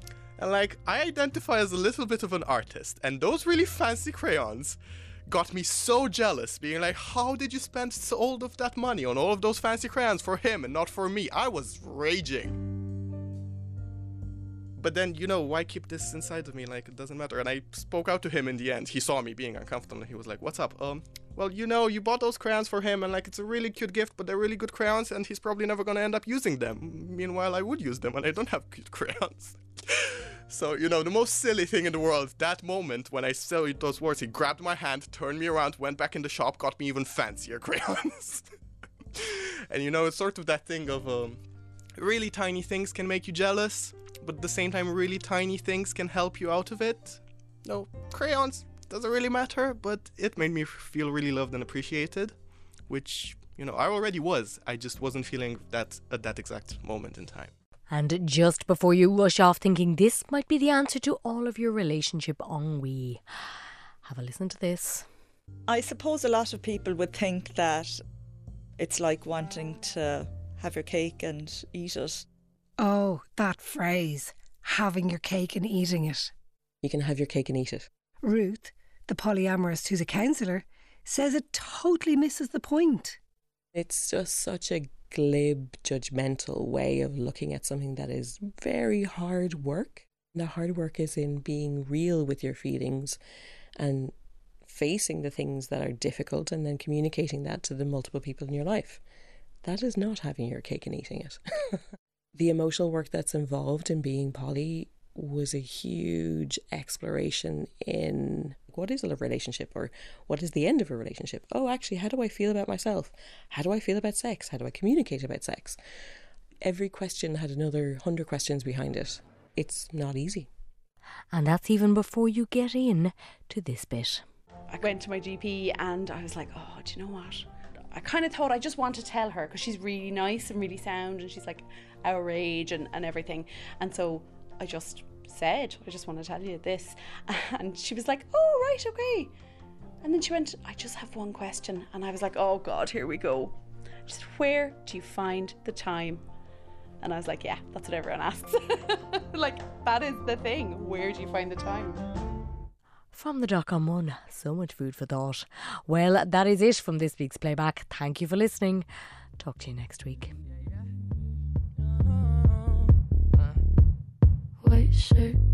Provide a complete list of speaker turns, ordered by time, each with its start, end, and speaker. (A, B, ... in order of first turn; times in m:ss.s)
0:00.4-0:12.6 A
0:14.8-0:29.6 A
0:30.5-0:38.5 A
0:39.2-0:41.4 A
0:42.0-0:57.5 A
0:57.9-1:03.2 B
1:04.0-1:05.1 B
1:05.7-1:08.0 C
1:08.8-1:12.2 C
1:12.8-1:16.3 D
1:16.8-1:17.9 E
1:18.2-1:23.2 D
1:23.7-1:33.2 E
1:33.8-1:34.1 E
1:34.6-1:39.0 E
1:39.6-1:41.4 E
1:42.3-1:55.8 E
1:56.6-2:00.5 E
2:01.3-2:04.2 B
2:04.7-2:19.3 F
2:20.0-2:26.2 F
2:27.0-2:32.0 F
2:33.1-2:38.9 B
2:39.4-2:40.3 B